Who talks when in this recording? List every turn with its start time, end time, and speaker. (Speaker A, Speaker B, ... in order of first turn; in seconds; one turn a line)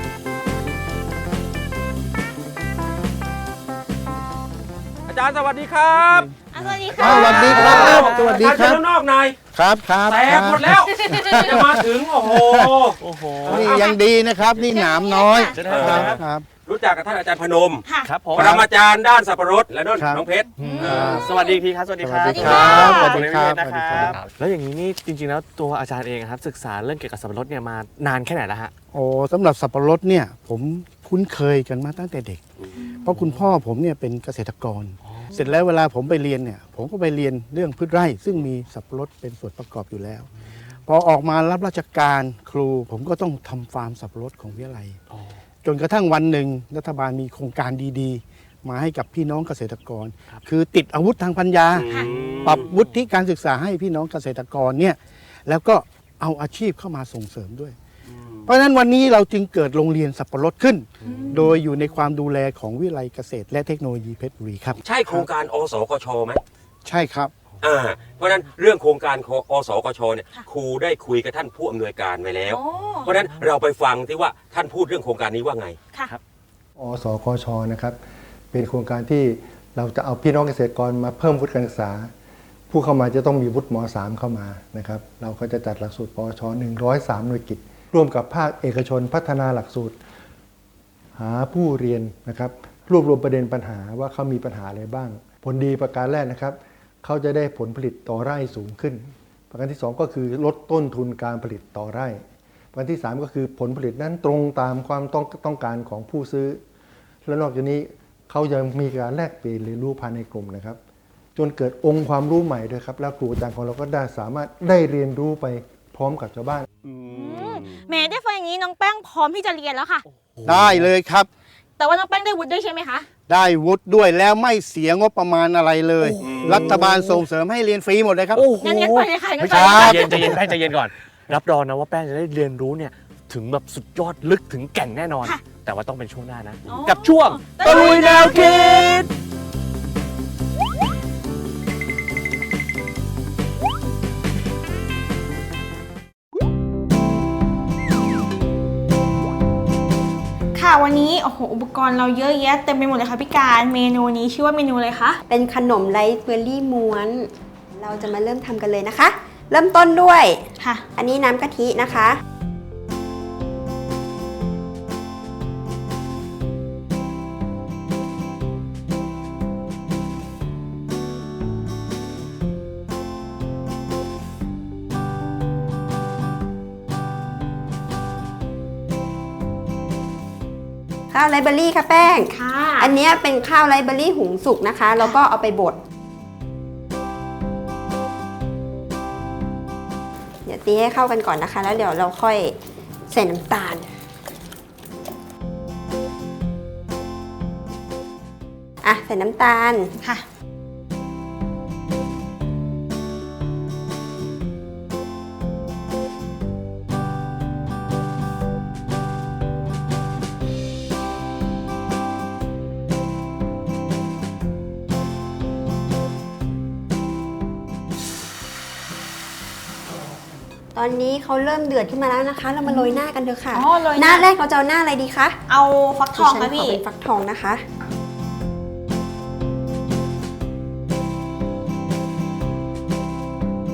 Speaker A: 5.1-6.3
Speaker B: 6.0-6.3
Speaker C: 6.5-8.1
Speaker A: 7.0-9.4
Speaker D: 7.0-8.8
Speaker B: 7.1-8.3
Speaker D: 9.5-12.8
Speaker A: 10.1-13.9
Speaker C: 11.0-11.6
Speaker B: 13.0-13.7
Speaker D: 13.5-16.5
Speaker C: 13.7-14.0
Speaker C: 14.7-15.6
Speaker B: 15.5-16.2
Speaker A: 15.6-21.2
Speaker C: 17.9-18.1
Speaker B: 18.0-18.7
Speaker D: 20.0-20.2
Speaker B: 20.6-28.7
Speaker C: 20.6-21.6
Speaker D: 20.8-21.3
Speaker D: 22.0-24.2
Speaker C: 22.3-23.2
Speaker A: 22.4-23.4
Speaker D: 28.9-32.4
Speaker D: 33.0-40.3
Speaker B: 35.1-35.4
Speaker D: 40.9-45.0
Speaker B: 45.1-45.4
Speaker D: 45.6-51.9
Speaker A: 51.8-52.7
Speaker D: 52.4-57.8
Speaker A: 58.1-58.5
Speaker D: 58.5-65.3
Speaker C: 61.0-61.6
Speaker B: 61.1-61.3
Speaker A: 64.8-66.4
Speaker D: 66.9-67.3
Speaker A: 67.6-75.8
Speaker C: 72.5-73.1
Speaker E: 76.8-78.0
Speaker E: 78.5-82.1
Speaker E: 82.7-90.0
Speaker E: 91.2-106.6
Speaker E: 107.2-110.8
Speaker E: 111.3-116.7
Speaker A: 116.8-117.8
Speaker C: 117.0-120.0
Speaker B: 120.3-120.9
Speaker D: 120.5-121.3
Speaker C: 121.8-123.1
Speaker D: 123.3-128.4
Speaker B: 126.0-127.2
Speaker A: 126.2-126.8
Speaker B: 128.3-139.1
Speaker C: 128.6-130.4
Speaker D: 129.5-130.4
Speaker C: 136.7-139.0
Speaker C: 150.6-155.2
Speaker F: 155.3-160.4
Speaker C: 160.6-160.8
Speaker F: 161.0-162.2
Speaker F: 181.1-185.8
Speaker C: 182.2-182.9
Speaker F: 190.4-192.6
Speaker F: 193.1-193.9
Speaker F: 198.8-199.9
Speaker C: 200.0-200.2
Speaker F: 220.8-225.3
Speaker C: 222.7-223.0
Speaker C: 223.5-224.3
Speaker C: 225.5-226.8
Speaker F: 226.1-227.6